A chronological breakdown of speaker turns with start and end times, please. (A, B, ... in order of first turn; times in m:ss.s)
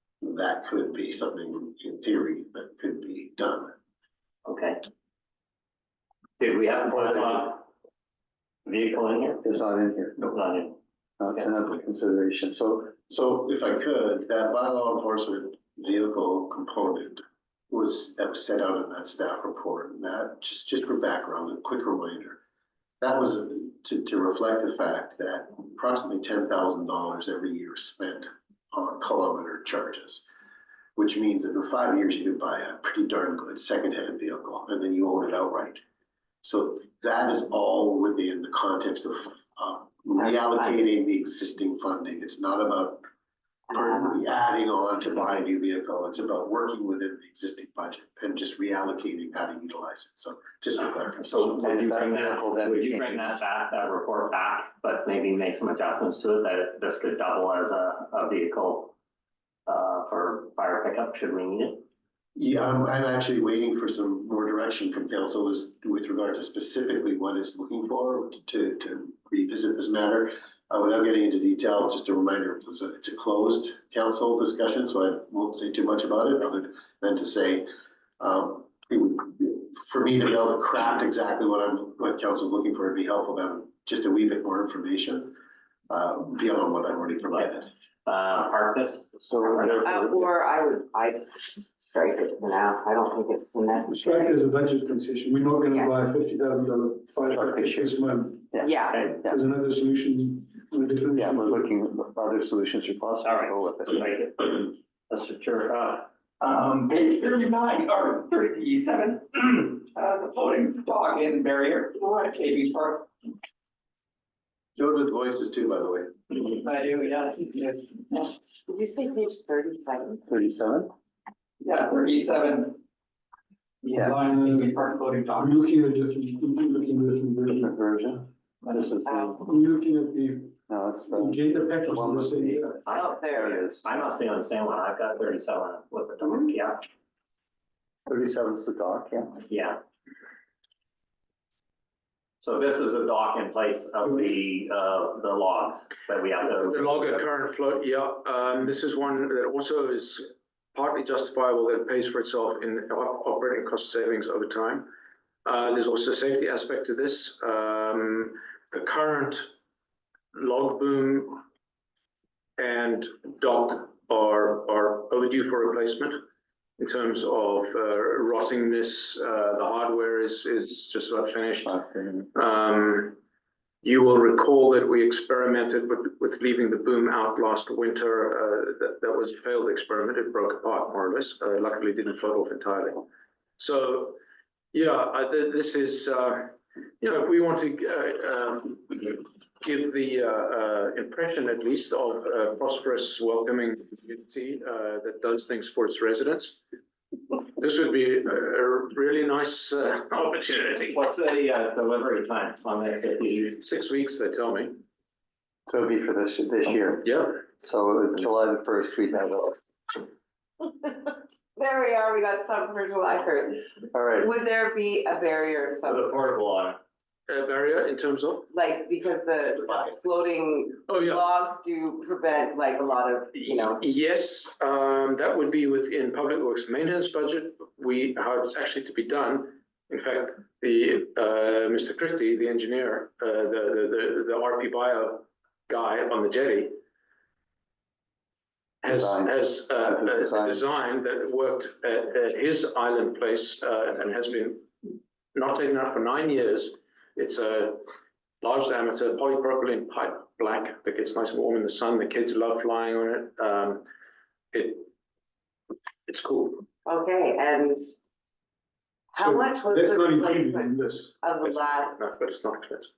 0:00.2-0:03.7 A
0:04.4-0:04.8 B
0:06.4-0:07.7 B
0:06.9-0:07.4 C
0:08.6-0:09.4 B
0:09.4-0:10.2 C
0:10.2-0:10.8 B
0:11.2-0:13.0 C
0:13.1-0:22.4 A
0:23.0-0:30.2 A
0:31.0-0:35.8 A
0:36.4-0:43.0 A
0:40.2-0:40.8 D
0:43.7-0:44.2 D
0:43.7-0:51.9 A
0:51.2-0:58.9 B
0:51.6-0:53.4 C
0:59.7-1:01.8 B
1:02.4-1:17.7 A
1:18.2-1:25.3 A
1:25.9-1:27.7 A
1:28.0-1:29.9 B
1:29.2-1:30.3 C
1:29.7-1:34.3 D
1:33.8-1:41.6 E
1:35.7-1:35.9 D
1:37.3-1:37.9 C
1:38.6-1:39.1 D
1:38.9-1:39.2 B
1:41.1-1:44.0 C
1:43.2-1:46.1 B
1:46.4-1:53.1 F
1:54.8-1:56.1 A
1:56.4-1:58.4 F
1:58.7-2:00.2 D
2:00.3-2:00.9 C
2:01.6-2:02.8 F
2:03.8-2:05.6 F
2:03.9-2:04.2 C
2:04.0-2:04.8 E
2:05.3-2:07.7 E
2:07.5-2:09.4 C
2:09.0-2:09.4 D
2:09.4-2:10.6 E
2:10.7-2:13.9 C
2:11.1-2:12.9 E
2:12.8-2:13.1 B
2:12.9-2:13.6 D
2:13.8-2:16.9 B
2:18.1-2:19.4 C
2:19.5-2:19.8 B
2:22.4-2:27.2 B
2:26.5-2:34.9 G
2:35.4-2:39.5 G
2:40.3-2:41.4 G
2:42.6-2:46.2 G
2:46.8-2:53.2 G
2:51.6-2:52.3 C
2:53.8-3:03.0 G
3:03.6-3:04.2 G
3:04.7-3:16.6 G
3:17.6-3:21.0 G
3:20.7-3:23.6 B
3:23.6-3:24.8 G
3:25.7-3:29.6 C
3:27.0-3:27.3 G
3:30.6-3:36.2 D
3:33.9-3:34.3 C
3:35.8-3:36.8 B
3:37.3-3:38.5 G
3:38.5-3:43.8 D
3:40.9-3:41.2 G
3:43.4-3:56.8 G
3:58.8-4:07.8 G
3:58.8-4:00.6 C
4:08.4-4:13.8 G
4:14.5-4:14.9 G
4:16.1-4:16.6 G
4:16.8-4:17.9 D
4:19.1-4:22.1 D
4:19.2-4:21.1 E
4:21.4-4:22.9 G